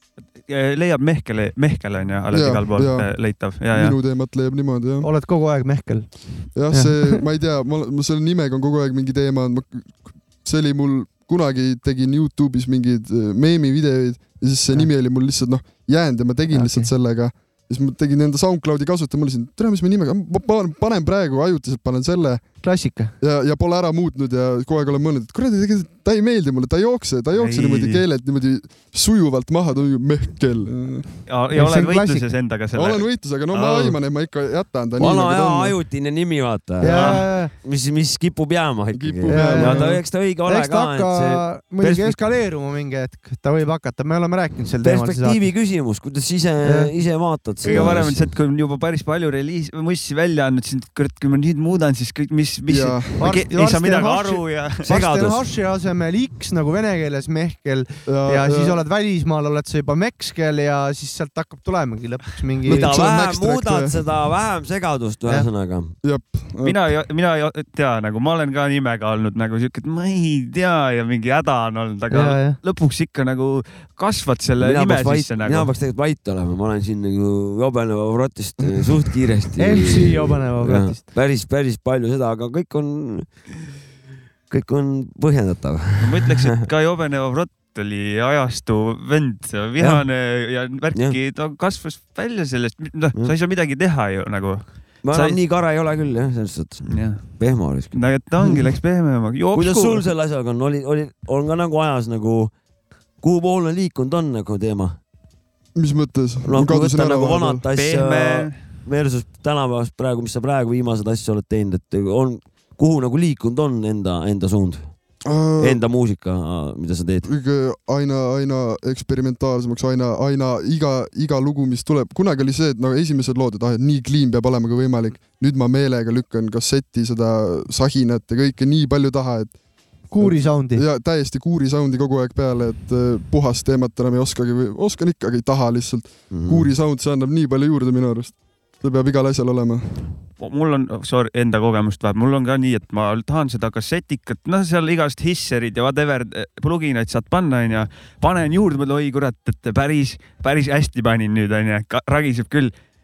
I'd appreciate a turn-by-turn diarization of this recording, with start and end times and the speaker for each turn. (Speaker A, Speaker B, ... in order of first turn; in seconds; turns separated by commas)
Speaker A: 0.5-4.0, Speaker B: 2.3-5.1, Speaker C: 5.0-7.2, Speaker B: 6.5-22.4, Speaker C: 16.5-16.9, Speaker C: 22.6-23.1, Speaker B: 23.2-31.1, Speaker A: 27.4-28.0, Speaker A: 31.3-34.0, Speaker C: 31.5-32.2, Speaker B: 32.7-35.8, Speaker D: 35.0-42.2, Speaker C: 36.8-37.5, Speaker A: 36.9-37.2, Speaker B: 38.9-40.0, Speaker C: 39.3-45.4, Speaker D: 44.8-48.3, Speaker C: 46.6-46.9, Speaker A: 47.6-54.9, Speaker B: 52.7-53.2, Speaker C: 53.2-62.9, Speaker D: 54.9-55.5, Speaker B: 58.0-58.8, Speaker B: 62.6-64.1, Speaker D: 62.7-66.0, Speaker B: 66.0-66.8, Speaker A: 66.6-75.7, Speaker C: 72.1-72.6, Speaker D: 74.6-83.3, Speaker C: 79.6-81.0, Speaker D: 84.5-86.5, Speaker A: 86.0-95.4, Speaker D: 89.8-90.0, Speaker D: 95.0-98.1, Speaker A: 96.9-100.0, Speaker D: 99.5-102.5, Speaker D: 103.2-105.0, Speaker B: 105.8-107.6, Speaker D: 106.5-114.9, Speaker A: 107.8-108.6, Speaker B: 115.2-115.8, Speaker D: 115.6-117.3, Speaker B: 117.2-129.5, Speaker C: 130.1-130.8, Speaker B: 130.2-140.0, Speaker D: 136.3-136.7, Speaker A: 140.4-152.7